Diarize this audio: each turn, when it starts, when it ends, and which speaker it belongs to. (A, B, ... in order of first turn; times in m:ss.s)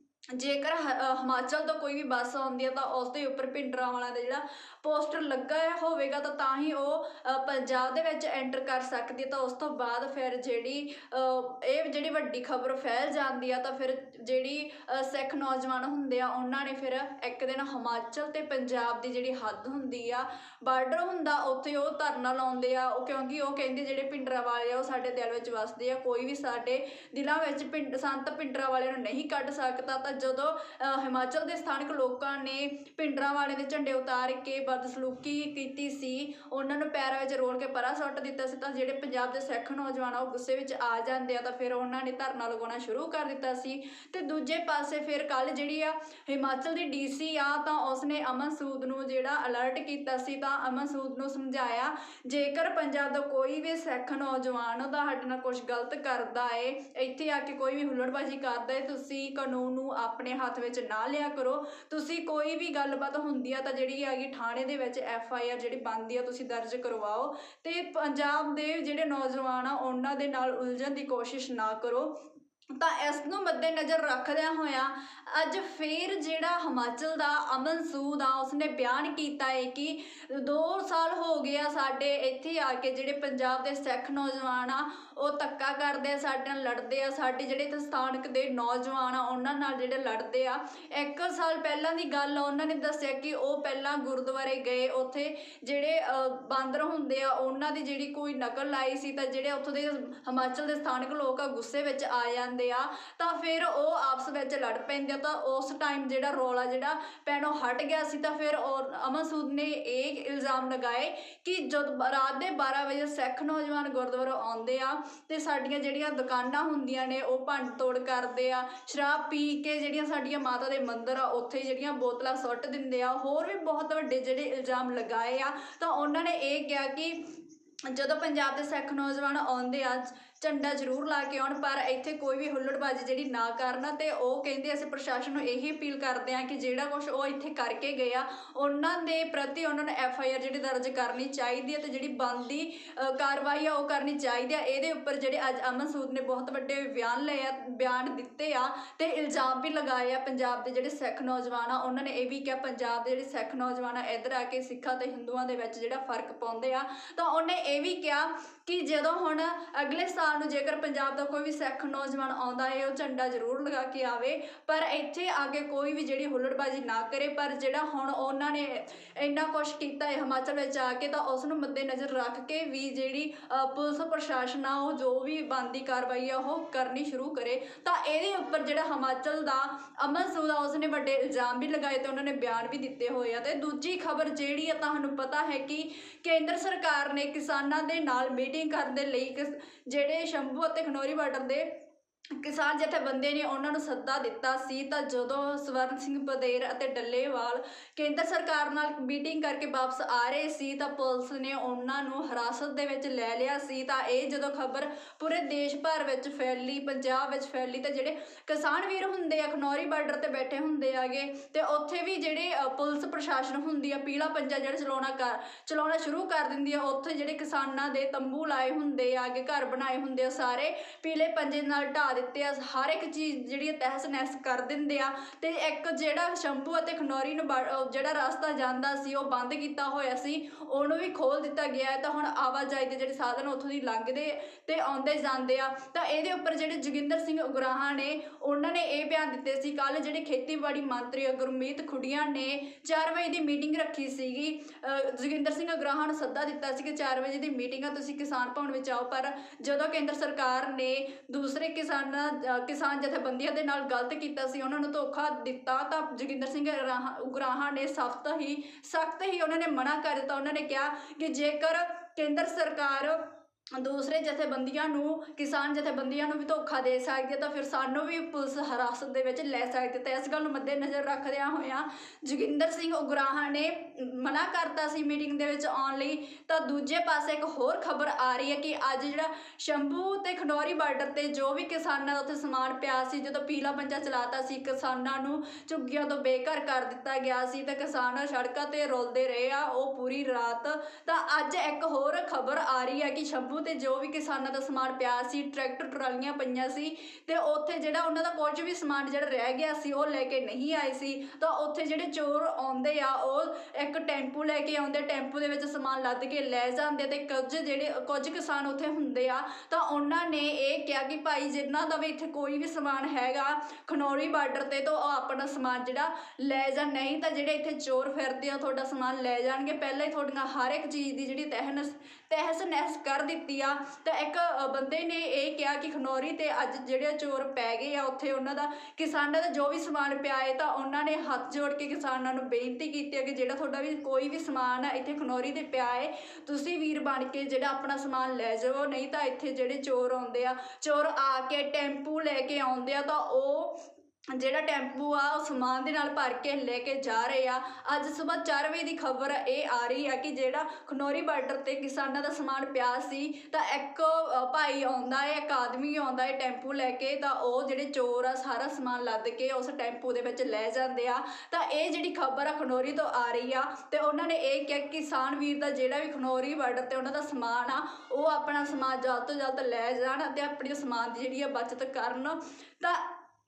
0:00.4-1:12.2 A
1:12.8-2:07.2 A
2:07.9-3:11.7 A
3:12.4-6:13.2 A